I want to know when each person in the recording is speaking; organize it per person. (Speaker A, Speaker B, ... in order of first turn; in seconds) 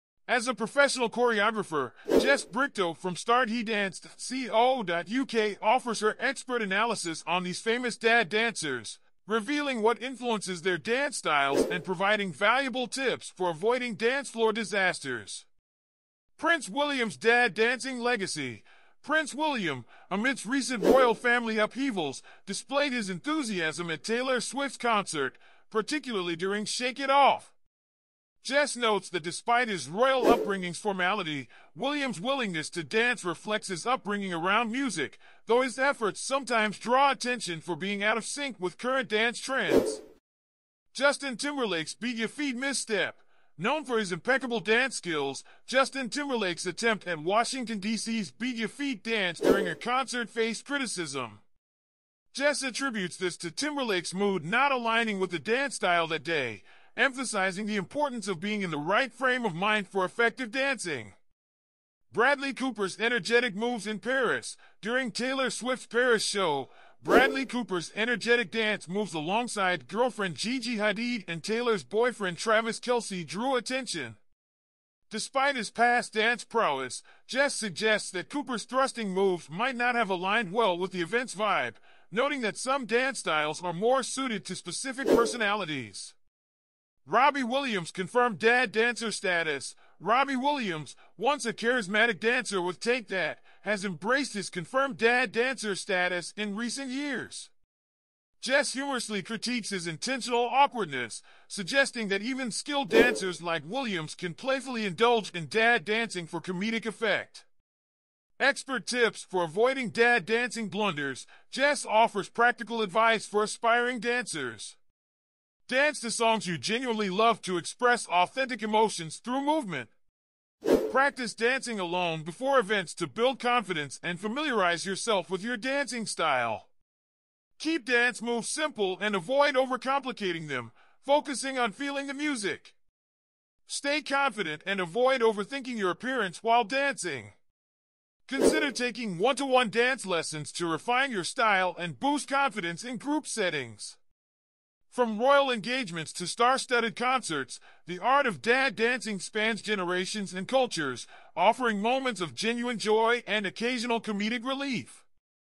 Speaker A: 0.3-15.5, 16.4-27.5, 28.4-40.0, 40.9-51.4, 52.3-61.1, 62.1-74.2, 75.1-86.2, 87.0-97.5, 98.4-107.5, 108.4-114.8, 115.7-119.9, 120.9-126.7, 127.6-132.8, 133.7-137.3, 138.3-144.0, 144.9-155.0